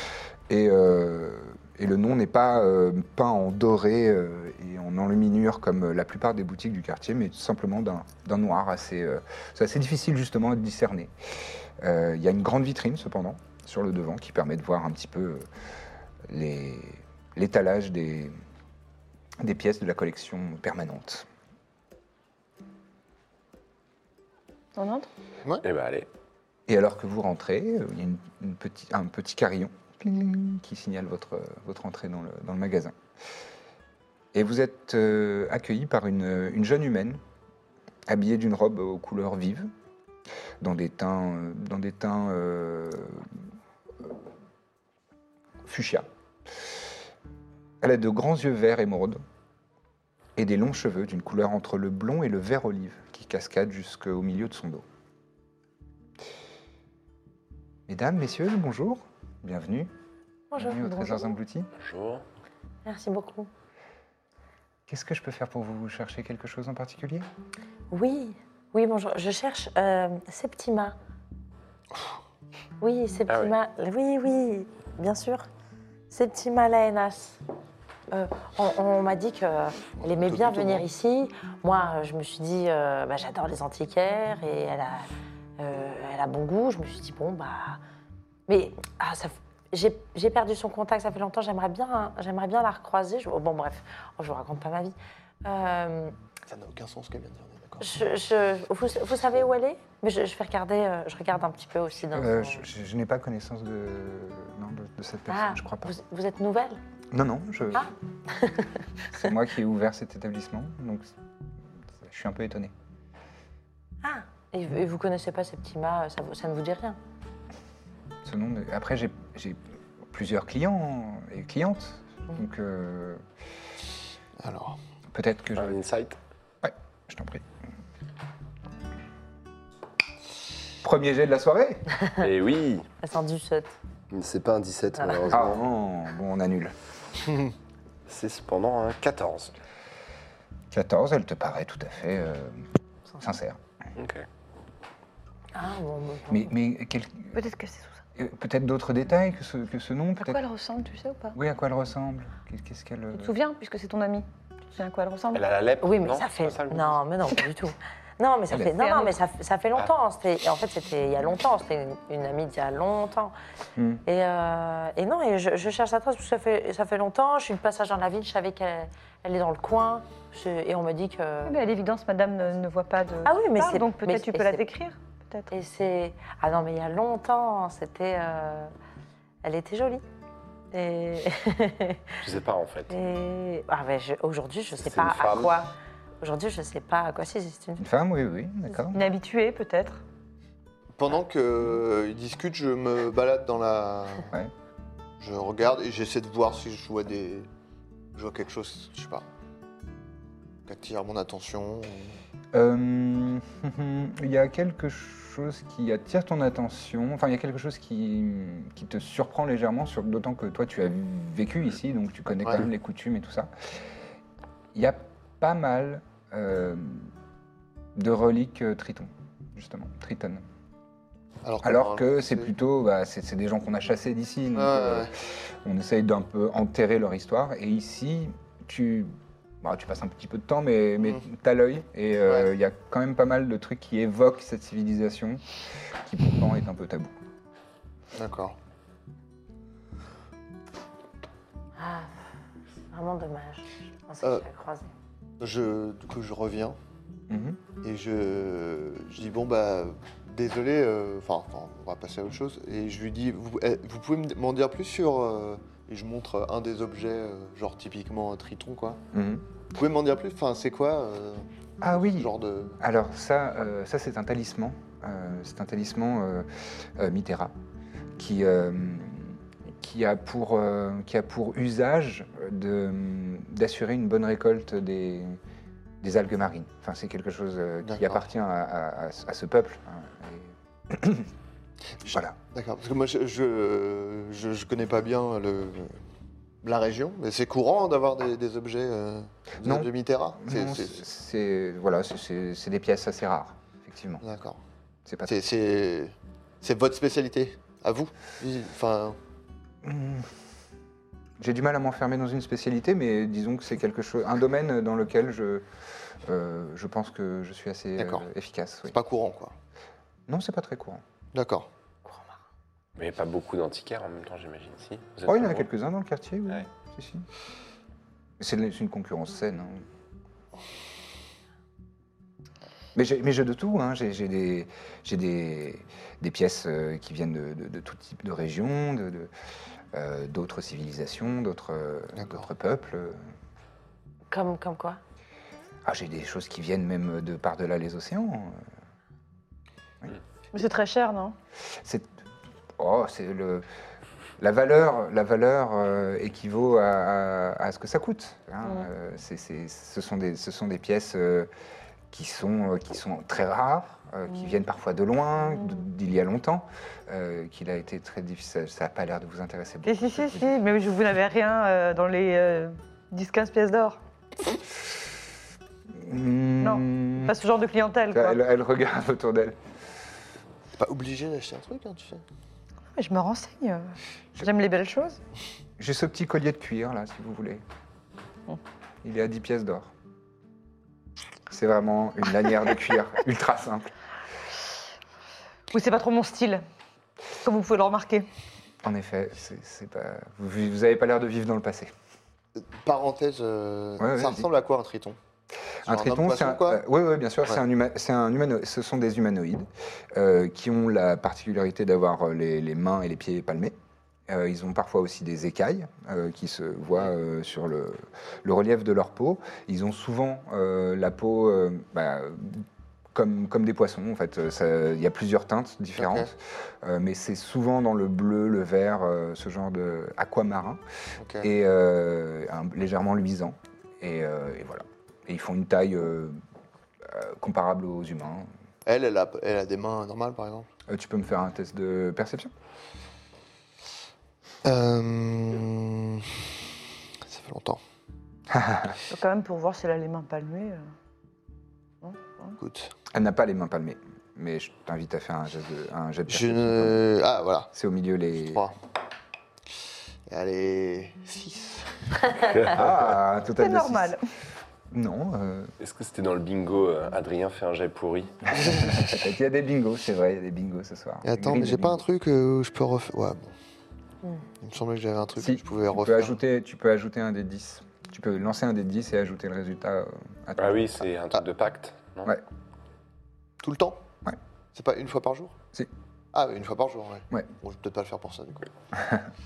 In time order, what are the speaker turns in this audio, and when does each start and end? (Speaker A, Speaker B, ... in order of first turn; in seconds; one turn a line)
Speaker A: 0.5-11.1
Speaker A: 11.8-15.5
Speaker A: 16.3-18.3
Speaker A: 19.4-21.3
Speaker B: 24.8-25.1
Speaker C: 25.6-26.1
Speaker A: 26.7-32.9
Speaker A: 34.3-37.2
Speaker A: 38.1-39.7
Speaker A: 40.6-43.3
Speaker A: 45.6-46.1
Speaker A: 47.8-49.2
Speaker A: 50.4-54.9
Speaker A: 57.9-59.9
Speaker D: 60.5-61.4
Speaker A: 60.6-61.7
Speaker C: 61.8-62.2
Speaker D: 62.9-63.5
Speaker A: 64.9-67.3
Speaker D: 67.9-71.0
Speaker D: 72.8-75.5
Speaker D: 76.1-77.4
Speaker D: 78.1-85.1
Speaker E: 80.0-80.8
Speaker D: 85.6-87.8
Speaker D: 88.5-96.2
Speaker E: 96.5-98.1
Speaker D: 97.8-102.7
Speaker A: 102.1-105.9
Speaker D: 105.3-106.8
Speaker A: 107.1-107.9
Speaker D: 107.7-108.7
Speaker A: 109.1-111.1
Speaker A: 112.0-112.7
Speaker D: 114.0-117.0
Speaker A: 118.2-119.6
Speaker A: 120.1-123.2
Speaker E: 124.4-124.8
Speaker A: 125.1-125.8
Speaker C: 125.6-126.2
Speaker A: 126.6-127.5
Speaker A: 130.8-131.8
Speaker C: 132.2-132.9
Speaker D: 133.0-133.8
Speaker C: 134.1-135.6
Speaker D: 135.0-135.3
Speaker A: 135.3-136.8
Speaker C: 138.1-139.6
Speaker A: 140.7-142.7
Speaker A: 143.2-143.6
Speaker C: 144.0-144.3
Speaker D: 145.5-146.5
Speaker A: 146.3-147.4
Speaker B: 147.3-148.0
Speaker A: 148.2-150.4
Speaker B: 150.2-151.4
Speaker A: 151.3-153.4
Speaker B: 153.1-155.4
Speaker C: 155.3-157.0
Speaker D: 155.8-163.3
Speaker B: 158.6-159.2
Speaker A: 163.8-164.0
Speaker D: 164.1-171.6
Speaker B: 171.4-175.5
Speaker D: 173.2-174.7
Speaker D: 175.5-178.7
Speaker D: 179.4-180.0
Speaker D: 180.7-182.1
Speaker C: 182.2-182.9
Speaker D: 182.9-187.8
Speaker C: 184.8-185.6
Speaker A: 187.8-189.1
Speaker B: 188.9-190.0
Speaker E: 191.0-194.3
Speaker E: 195.2-197.5
Speaker E: 198.1-199.2
Speaker E: 200.7-202.2
Speaker A: 202.5-213.5
Speaker A: 214.7-217.1
Speaker A: 217.9-220.4
Speaker E: 221.4-222.5
Speaker A: 221.6-235.4
Speaker E: 224.6-225.1
Speaker A: 236.0-237.1
Speaker E: 238.2-238.6
Speaker D: 241.8-242.2
Speaker D: 242.9-244.9
Speaker E: 245.4-246.8
Speaker A: 247.3-247.6
Speaker E: 247.8-259.0
Speaker A: 259.1-259.4
Speaker E: 259.7-262.8
Speaker A: 261.8-267.5
Speaker A: 268.2-275.4
Speaker A: 276.0-281.3
Speaker E: 277.8-278.2
Speaker E: 282.0-286.0
Speaker A: 282.1-282.4
Speaker E: 286.6-291.0
Speaker A: 289.6-294.2
Speaker E: 294.2-294.6
Speaker A: 295.1-295.4
Speaker E: 295.3-299.2
Speaker A: 299.8-300.3
Speaker A: 301.4-305.6
Speaker A: 306.2-308.9
Speaker E: 308.0-308.3
Speaker E: 308.9-309.6
Speaker A: 310.3-311.0
Speaker E: 311.3-311.7
Speaker D: 312.1-312.3
Speaker C: 313.0-315.7
Speaker A: 315.3-317.3
Speaker A: 318.4-319.9
Speaker A: 322.9-329.3
Speaker A: 329.9-333.2
Speaker E: 332.2-332.4
Speaker D: 334.3-335.0
Speaker A: 335.9-338.6
Speaker B: 340.5-341.4
Speaker A: 341.8-342.1
Speaker A: 342.8-343.6
Speaker A: 344.4-351.5
Speaker A: 352.1-360.5
Speaker B: 359.9-364.0
Speaker A: 365.9-367.4
Speaker B: 366.6-368.4
Speaker A: 368.1-369.6
Speaker E: 370.8-372.2
Speaker B: 372.9-375.2
Speaker A: 375.8-377.6
Speaker A: 379.0-379.9
Speaker A: 381.5-383.9
Speaker B: 385.7-386.6
Speaker B: 387.4-388.3
Speaker A: 388.8-391.9
Speaker E: 392.6-395.2
Speaker A: 394.0-394.5
Speaker A: 395.8-403.8
Speaker E: 395.8-396.8
Speaker A: 404.3-420.8
Speaker E: 416.0-416.3
Speaker E: 421.2-421.5
Speaker A: 421.4-426.4
Speaker A: 427.0-428.5
Speaker E: 428.9-430.7
Speaker A: 430.9-432.5
Speaker E: 434.6-436.6
Speaker E: 437.2-437.8
Speaker A: 438.5-439.0
Speaker B: 439.1-440.9
Speaker B: 442.0-442.6
Speaker E: 442.6-442.9
Speaker A: 443.1-447.0
Speaker E: 446.3-447.7
Speaker A: 447.7-448.7
Speaker E: 448.4-448.8
Speaker E: 450.3-452.4
Speaker C: 452.5-453.0
Speaker A: 452.6-454.2
Speaker B: 453.6-454.2
Speaker A: 454.9-455.7
Speaker C: 455.8-458.4
Speaker A: 458.5-462.0
Speaker E: 461.2-463.5
Speaker E: 464.6-466.4
Speaker A: 465.4-471.1
Speaker C: 470.6-472.4
Speaker E: 473.6-474.0
Speaker E: 474.7-475.6
Speaker E: 476.3-478.7
Speaker A: 479.0-479.3